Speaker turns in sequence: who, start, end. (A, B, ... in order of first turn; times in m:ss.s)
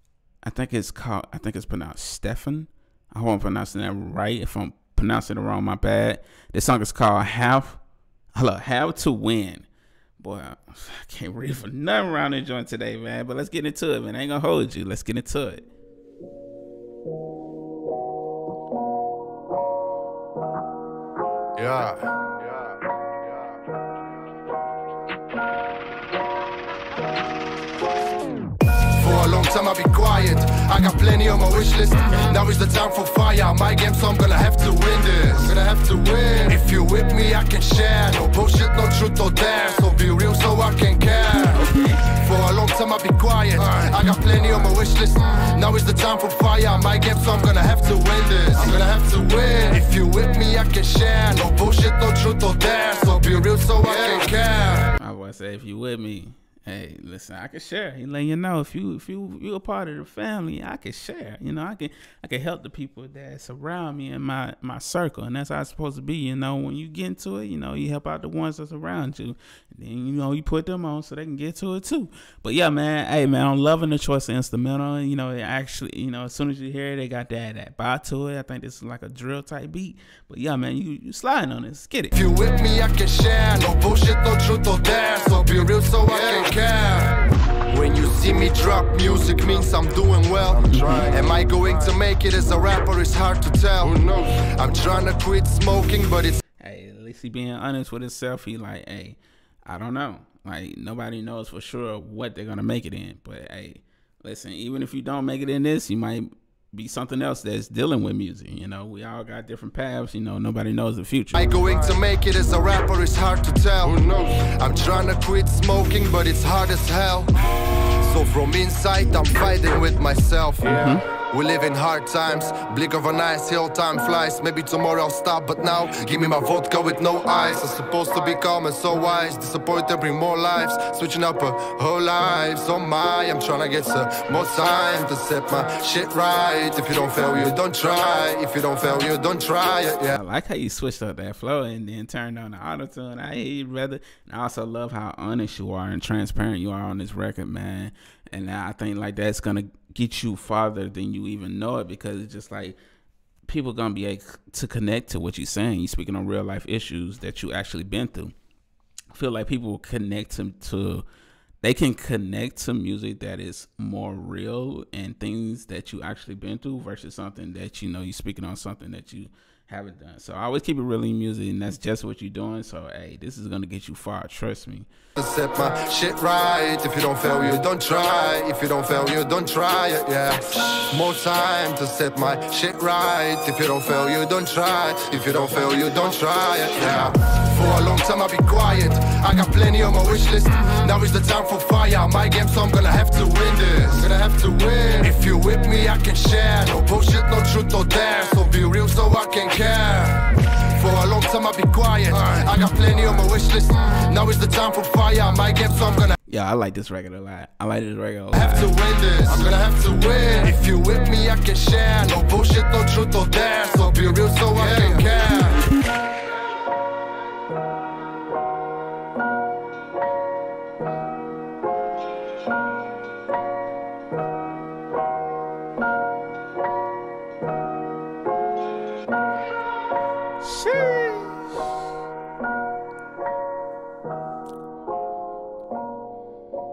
0:00.4-0:07.8 A
0:08.3-0:09.6 A
0:10.2-0:15.6 A
0:21.6-0:22.0 B
0:28.8-0:54.9 B
0:41.5-0:42.0 A
0:55.0-1:22.1 A
1:22.1-1:36.4 B
1:30.7-1:31.0 A
1:36.6-1:51.4 A
1:51.3-2:20.2 B
2:00.6-2:01.1 A
2:20.1-2:32.8 A
2:33.4-2:38.3 A
2:39.1-2:41.0 A
2:41.6-2:54.9 A
2:55.2-3:26.1 B
3:26.3-3:28.7 A
3:28.3-3:35.7 B
3:50.4-3:51.5 A